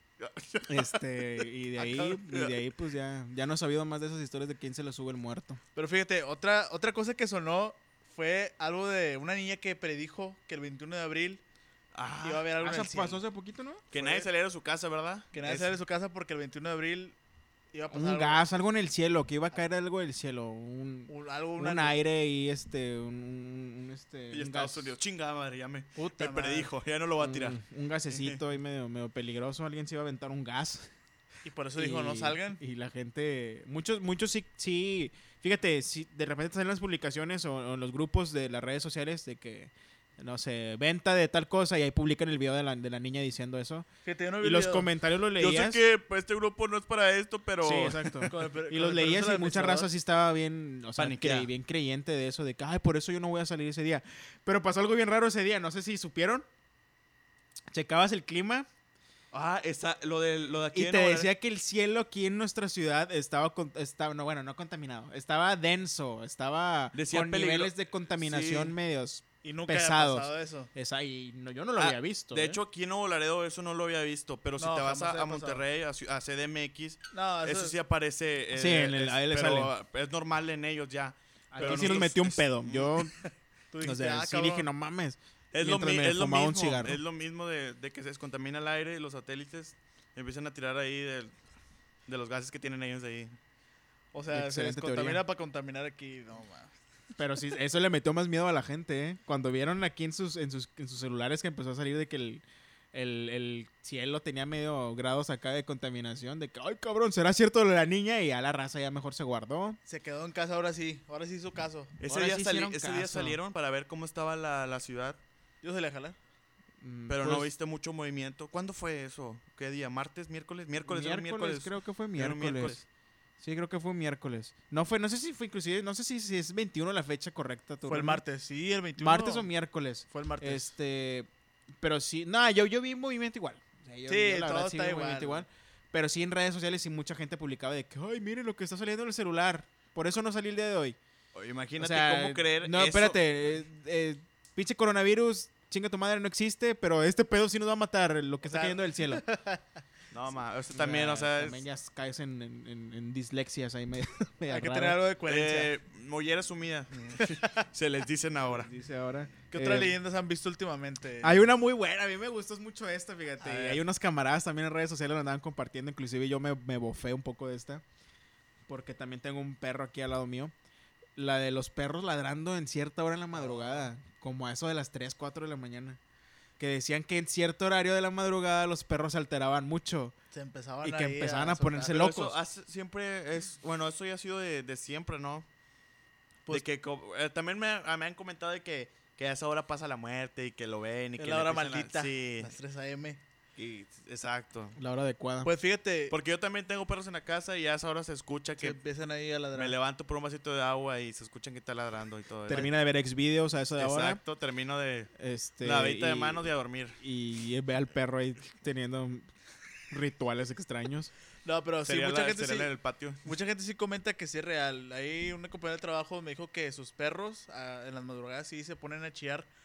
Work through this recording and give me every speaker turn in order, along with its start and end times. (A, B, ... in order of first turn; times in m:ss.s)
0:00.2-0:01.0 A
0:00.7-0:05.6 B
0:01.8-0:02.6 A
0:05.8-0:11.4 C
0:11.9-0:12.5 A
0:12.2-0:13.2 C
0:12.6-0:13.8 B
0:13.9-0:15.7 A
0:13.9-0:14.3 C
0:15.3-0:17.2 C
0:17.7-0:18.4 C
0:17.9-0:24.9 B
0:21.1-0:22.0 C
0:24.3-0:27.6 A
0:26.0-0:26.7 C
0:27.2-0:30.9 B
0:28.1-0:28.4 A
0:31.4-0:32.6 C
0:31.8-0:43.9 B
0:44.0-0:44.9 C
0:44.4-0:45.8 B
0:45.4-0:48.3 A
0:47.6-0:56.4 B
0:48.3-0:49.9 C
0:51.0-0:51.5 A
0:57.7-0:58.7 B
0:59.3-1:01.3 A
1:00.7-1:12.6 B
1:06.9-1:08.8 A
1:09.4-1:10.7 C
1:11.8-1:23.1 A
1:14.6-1:15.6 C
1:17.1-1:17.8 C
1:18.5-1:19.7 B
1:21.5-1:23.1 B
1:21.6-1:22.1 C
1:23.7-1:24.7 C
1:23.8-1:27.0 B
1:25.5-1:31.3 A
1:32.1-1:33.3 A
1:34.1-1:36.7 C
1:34.3-1:35.2 B
1:37.2-1:49.8 B
1:49.8-1:51.9 C
1:52.0-1:55.2 A
1:52.0-1:53.4 B
1:55.6-1:56.2 C
1:56.8-1:57.5 B
1:57.1-2:02.8 A
2:00.8-2:02.8 B
2:03.4-2:08.2 B
2:07.9-2:09.5 C
2:09.0-2:11.3 B
2:10.1-2:10.7 C
2:11.8-2:21.0 B
2:14.1-2:15.4 C
2:21.3-2:23.2 A
2:21.8-2:29.2 B
2:28.5-2:29.6 C
2:30.1-2:31.6 A
2:30.7-2:35.0 B
2:34.5-2:35.7 C
2:35.2-2:38.7 A
2:38.5-2:39.9 B
2:39.5-2:41.5 C
2:41.2-2:47.8 B
2:43.4-2:43.8 C
2:48.7-2:50.5 B
2:51.2-2:56.0 B
2:53.3-2:53.9 C
2:56.6-3:00.1 B
3:00.3-3:02.0 C
3:00.8-3:02.3 B
3:01.9-3:05.4 A
3:06.5-3:12.5 A
3:11.2-3:13.2 C
3:13.6-3:14.8 A
3:14.8-3:15.5 B
3:15.4-3:16.1 C
3:16.1-3:18.8 A
3:18.6-3:19.7 C
3:19.5-3:22.7 A
3:22.5-3:24.2 B
3:23.8-3:25.1 A
3:25.2-3:29.3 B
3:25.6-3:27.0 A
3:29.9-3:31.1 B
3:31.4-3:32.7 C
3:31.8-3:33.3 A
3:33.2-3:39.5 C